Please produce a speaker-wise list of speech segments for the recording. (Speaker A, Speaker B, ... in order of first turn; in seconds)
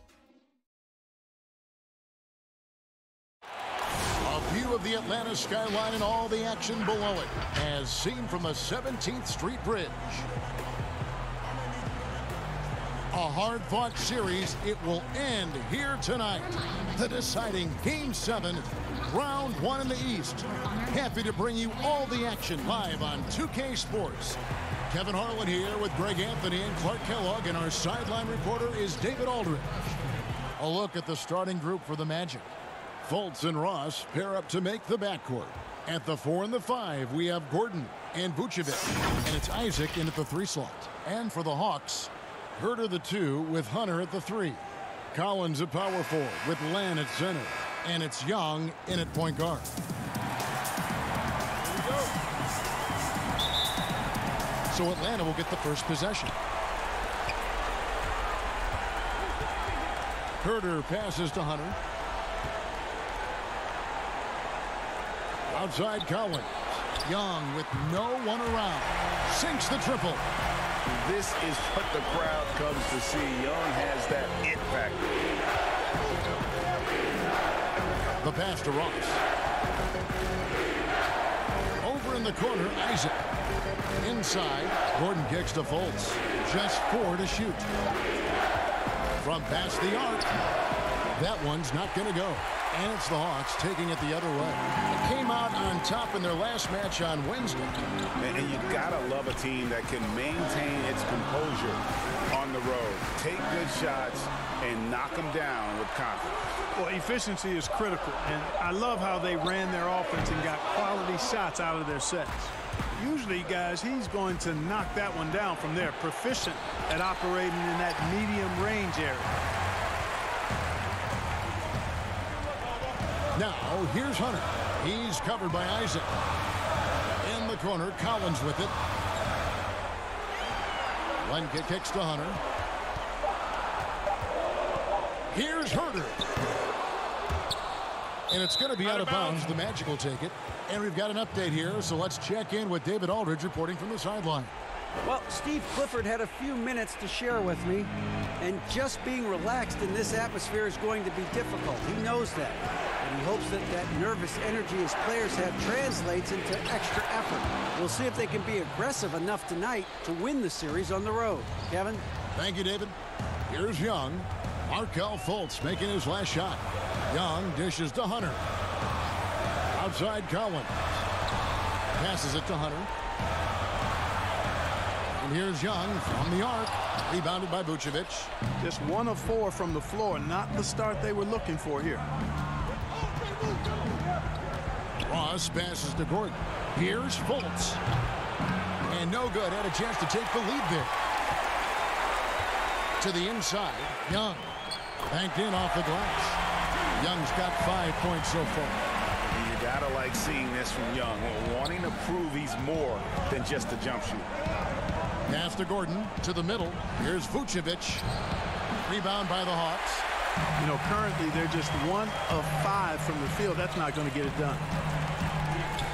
Speaker A: 4.2-10.3, 13.1-30.0, 30.6-32.5, 33.0-49.7, 54.7-56.4, 60.4-61.8, 65.5-70.2, 78.2-79.2, 81.8-83.2, 84.0-87.7, 89.2-90.3, 91.2-97.8, 123.3-126.2, 127.2-128.8, 131.2-132.4, 135.3-136.2, 138.3-144.5, 162.3-163.0, 163.5-168.4, 169.7-171.0, 171.9-172.9, 175.1-178.3, 185.0-187.8, 188.9-190.9, 193.0-194.5, 195.1-196.4, 196.9-198.8, 205.3-208.1, 208.9-210.1
Speaker B: 70.9-75.1, 98.2-106.4, 199.2-204.3
Speaker C: 106.8-119.3, 178.6-182.1, 210.6-214.7
Speaker D: 145.1-162.0